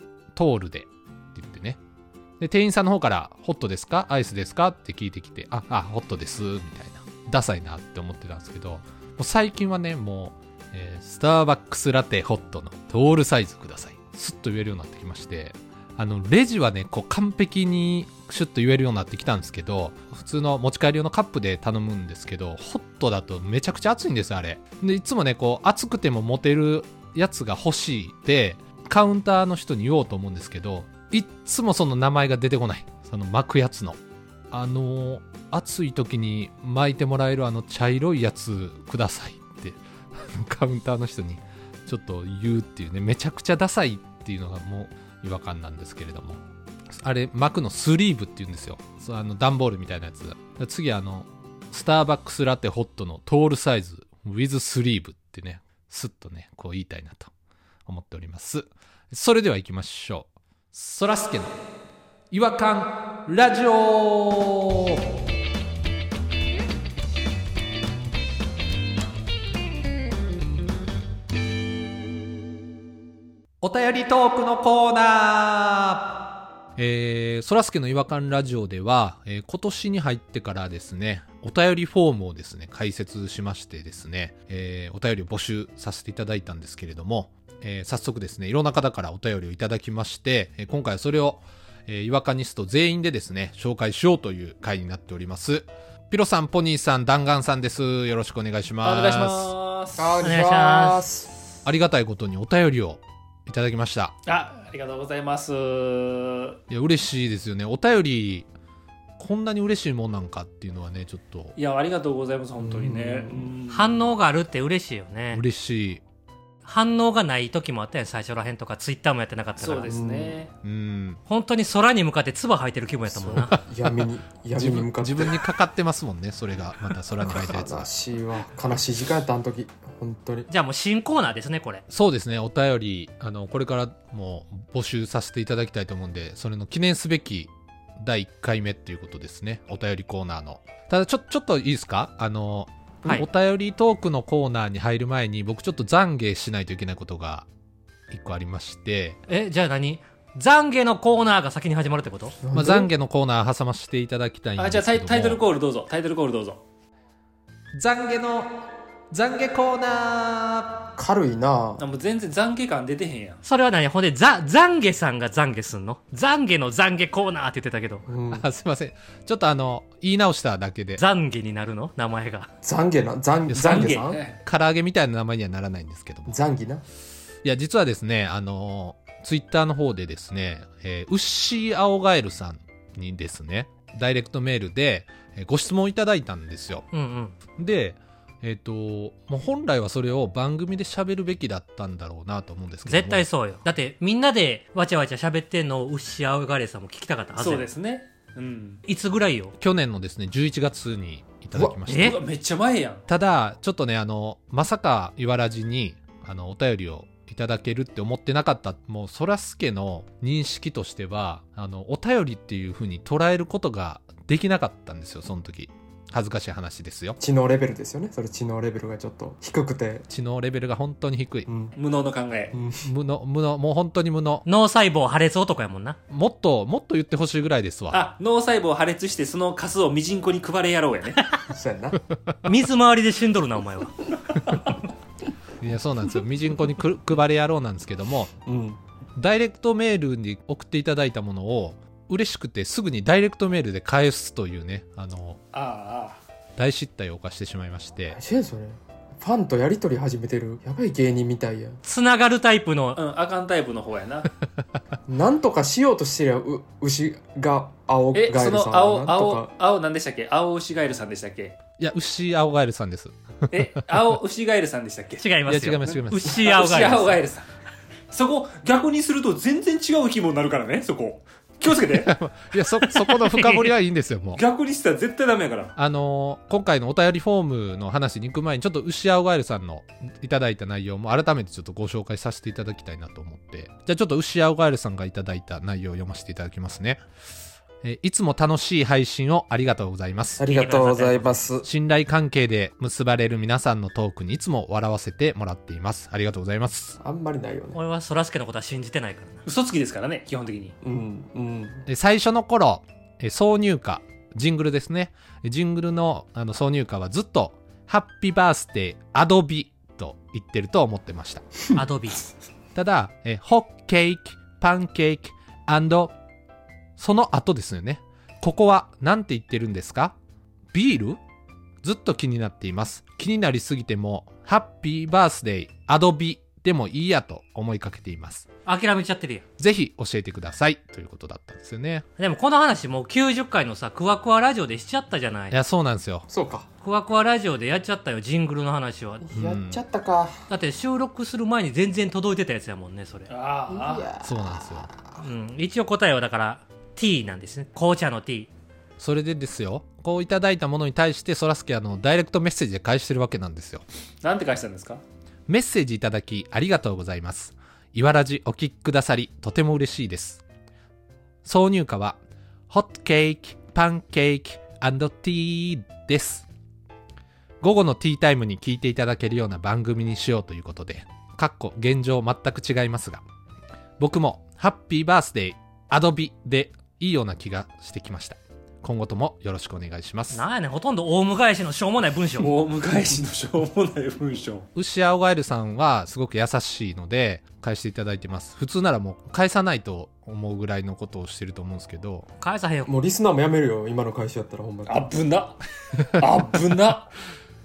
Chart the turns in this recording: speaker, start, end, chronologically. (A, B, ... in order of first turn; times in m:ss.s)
0:00.3-0:01.8 A
0:02.4-0:34.0 A
0:34.5-0:46.4 A
0:47.0-0:57.3 A
0:57.9-1:01.6 A
1:02.3-1:05.1 A
1:13.6-1:16.2 A
1:16.8-1:39.5 A
1:38.8-1:40.2 B
1:40.0-1:41.3 C
1:40.2-1:41.0 D
1:41.6-1:44.2 A
1:44.3-1:46.6 B
1:46.7-1:48.5 A
1:49.2-1:51.6 A
1:51.6-1:54.0 B
1:52.6-1:53.5 C
1:53.7-1:55.4 D
1:55.3-1:56.0 A
1:56.6-2:00.0 D
1:59.6-2:00.5 B
1:59.8-2:00.4 C
2:00.6-2:01.2 A
2:01.3-2:03.6 D
2:03.3-2:07.9 A
2:03.3-2:05.4 C
2:07.2-2:10.5 C
2:10.5-2:11.8 D
2:11.9-2:27.5 A
2:28.1-2:29.2 A
2:29.3-2:32.4 D
2:32.4-2:32.9 C
2:32.5-2:35.4 A
2:34.6-2:36.6 B
2:37.7-2:38.6 A
2:39.1-2:40.8 A
2:41.0-2:41.8 C
2:41.8-2:43.4 B
2:43.4-2:48.1 D
2:48.1-2:48.4 C
2:48.3-2:51.0 A
2:51.0-2:52.5 D
2:52.6-2:54.2 C
2:53.5-2:56.4 A
2:53.6-2:54.4 B
2:56.3-2:56.8 C
2:57.4-3:06.8 A
3:06.9-3:07.4 D
3:07.6-3:13.3 A
3:12.9-3:17.7 D
3:17.4-3:18.8 B
3:18.9-3:19.6 D
3:19.6-3:22.2 A
3:21.9-3:23.0 B
3:21.9-3:22.2 D
3:23.1-3:37.2 A
3:37.2-3:40.1 C
3:40.1-3:41.5 A
3:41.5-3:41.7 C
3:41.8-3:42.6 B
3:42.5-3:42.9 C
3:42.8-3:44.5 A
3:44.5-3:46.0 D
3:46.1-3:48.1 A
3:47.9-3:51.2 B
3:51.5-3:52.0 C
3:52.4-3:54.0 D
3:55.6-3:58.3 A
3:58.5-3:58.8 C
3:59.2-4:05.4 A
4:05.5-4:06.2 B
4:06.6-4:08.2 A
4:08.1-4:11.8 C
4:11.8-4:13.0 D
4:13.0-4:14.3 B
4:15.1-4:19.5 C
4:18.1-4:21.6 B
4:21.8-4:24.0 A
4:23.5-4:25.3 B
4:25.2-4:27.2 D
4:25.5-4:26.5 A
4:25.8-4:27.4 B
4:28.1-4:32.2 B
4:31.9-4:34.4 A
4:34.4-4:35.7 B
4:35.8-4:47.0 A
4:47.8-4:50.5 A
4:50.4-4:51.7 C
4:50.4-4:51.4 D
4:51.6-4:57.0 A
4:57.0-4:57.8 C
4:57.7-4:59.4 D
4:59.5-5:00.8 B
5:00.8-5:01.8 C
5:01.9-5:11.4 A
5:11.8-5:12.3 D
5:12.8-5:16.1 A
5:17.0-5:20.2 A
5:20.7-5:21.2 A
5:21.8-5:28.5 A
5:28.6-5:29.4 D
5:29.6-5:32.0 A
5:32.2-5:35.6 D
5:35.5-5:36.3 A
5:36.3-5:36.7 C
5:36.8-5:39.3 D
5:39.2-5:40.4 C
5:39.3-5:39.8 A
5:40.5-5:43.3 D
5:43.3-5:44.1 B
5:43.7-5:45.2 C
5:44.2-5:44.9 A
5:45.2-5:48.5 D
5:49.0-5:53.8 A
5:54.2-5:55.0 B
5:55.5-6:00.4 A
6:01.4-6:06.5 A
6:07.6-6:13.2 A
6:14.0-6:20.4 A
6:20.3-6:22.5 D
6:22.4-6:24.7 B
6:24.8-6:32.3 A
6:32.4-6:32.9 D
6:32.9-6:35.1 C
6:34.9-6:37.1 B